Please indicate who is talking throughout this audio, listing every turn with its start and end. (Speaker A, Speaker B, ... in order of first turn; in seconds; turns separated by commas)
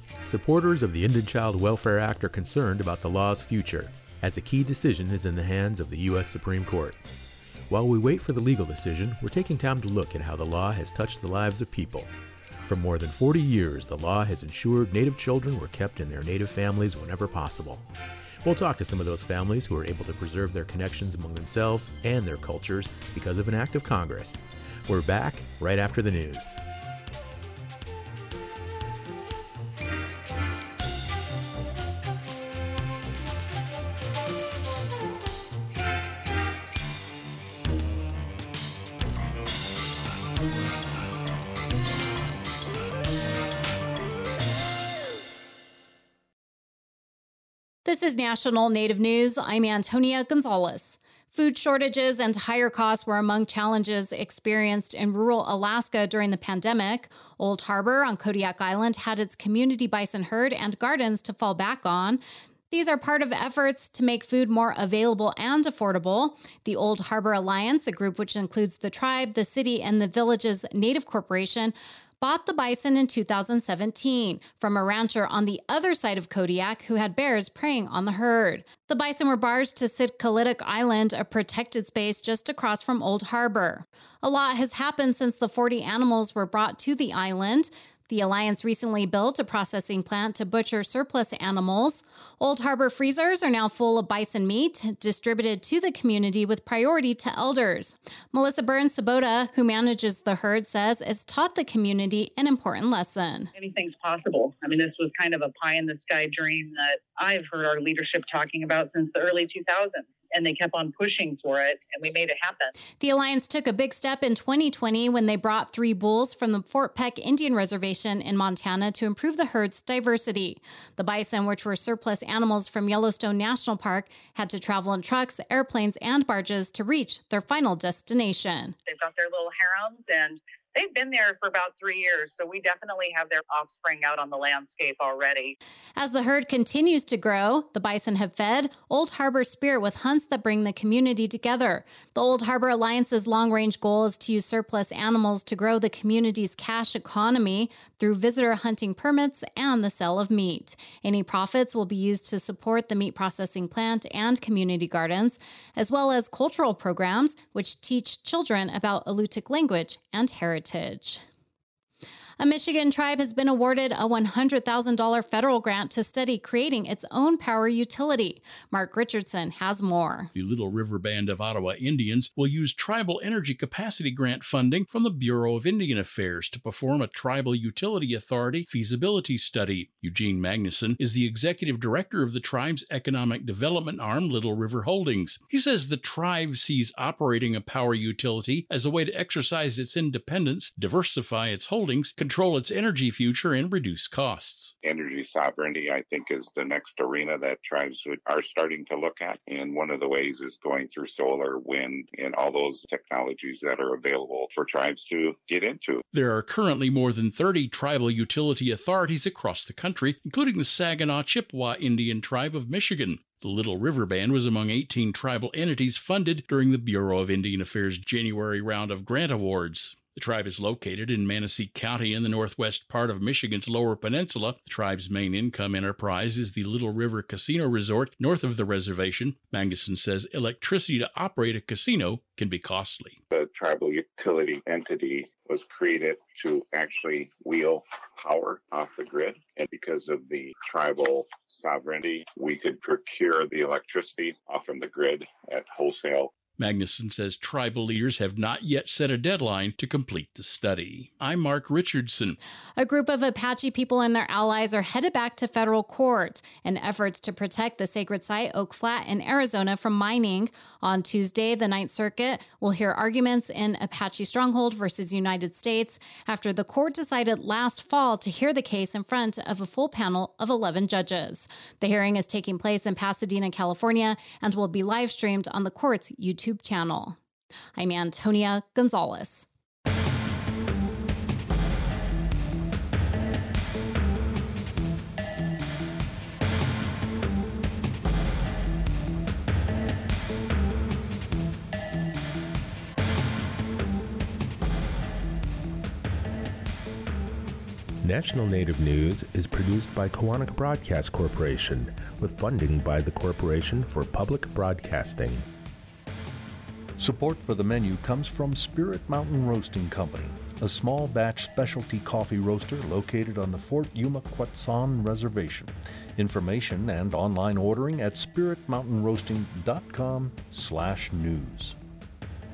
Speaker A: 0.2-7.1, Speaker A: 7.7-12.1, Speaker A: 12.6-17.9, Speaker A: 18.4-26.6, Speaker B: 47.9-103.5, Speaker C: 103.5-112.7, Speaker B: 113.0-128.8, Speaker C: 128.8-135.5, Speaker B: 136.0-161.2, Speaker B: 162.4-170.3, Speaker D: 170.3-194.7, Speaker E: 194.8-206.0, Speaker D: 206.1-233.2, Speaker E: 233.3-246.3, Speaker D: 246.6-252.4, Speaker B: 252.8-277.2, Speaker B: 277.8-279.5, Speaker F: 298.0-305.5, Speaker G: 307.0-321.8